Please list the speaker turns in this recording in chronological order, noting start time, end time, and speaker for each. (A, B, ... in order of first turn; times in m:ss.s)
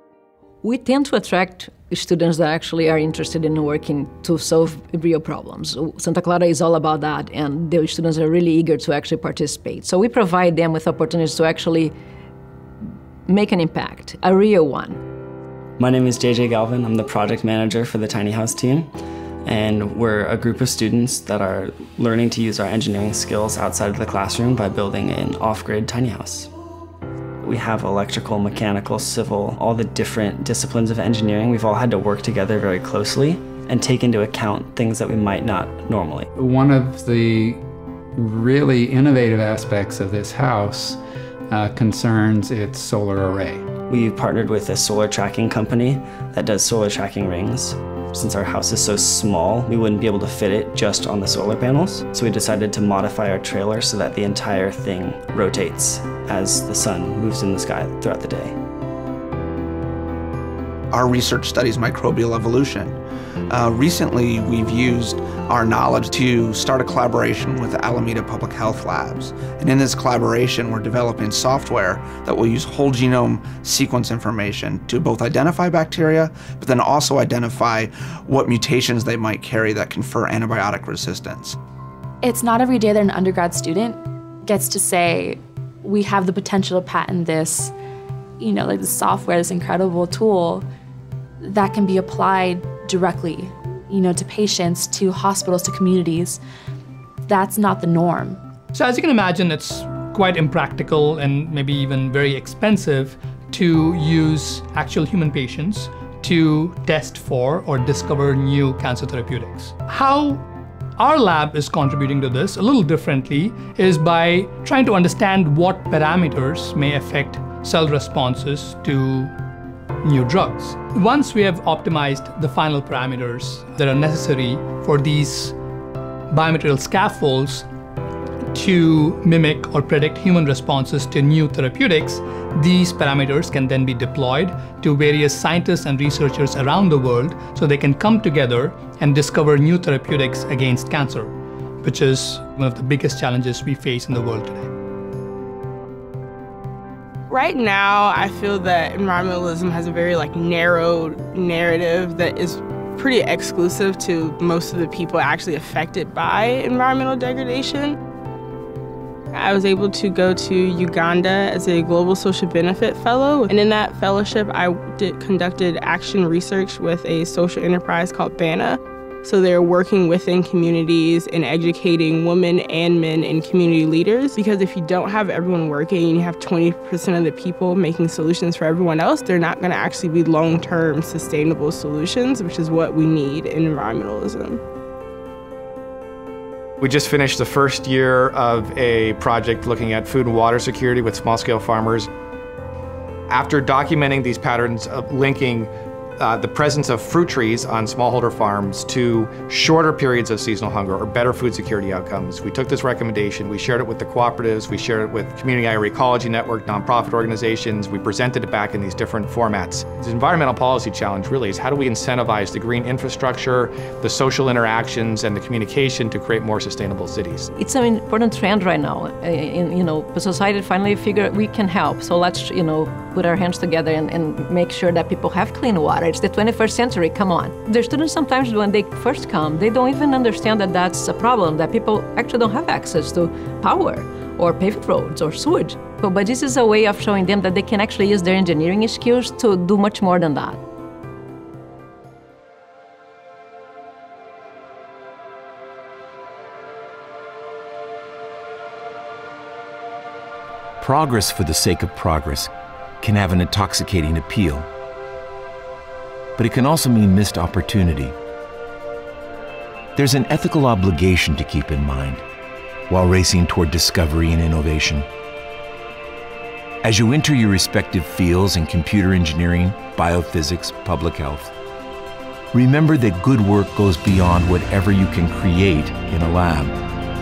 0:00.6-0:11.9 A
0:13.3-0:15.0 A
0:15.8-0:18.9 B
0:19.4-0:26.5 B
0:27.4-0:36.3 B
0:36.3-0:37.6 C
0:38.2-0:43.7 C
0:43.9-0:58.6 B
1:00.9-1:03.0 D
1:03.5-1:21.6 D
1:22.2-1:27.7 E
1:28.4-1:30.6 E
1:31.4-1:36.4 E
1:37.3-1:38.4 E
1:38.7-1:50.4 F
1:51.0-1:59.3 F
2:00.0-2:05.5 F
2:06.3-2:07.7 F
2:08.5-2:24.7 F
2:27.3-2:38.0 G
2:39.3-3:04.6 G
3:06.8-3:12.1 H
3:13.3-3:37.4 H
3:37.5-4:00.6 A
4:10.8-4:14.7 I
4:16.4-4:18.2 I
4:20.0-4:22.2 I
4:22.9-4:25.1 I
4:26.8-4:31.5 I
4:32.5-4:36.8 I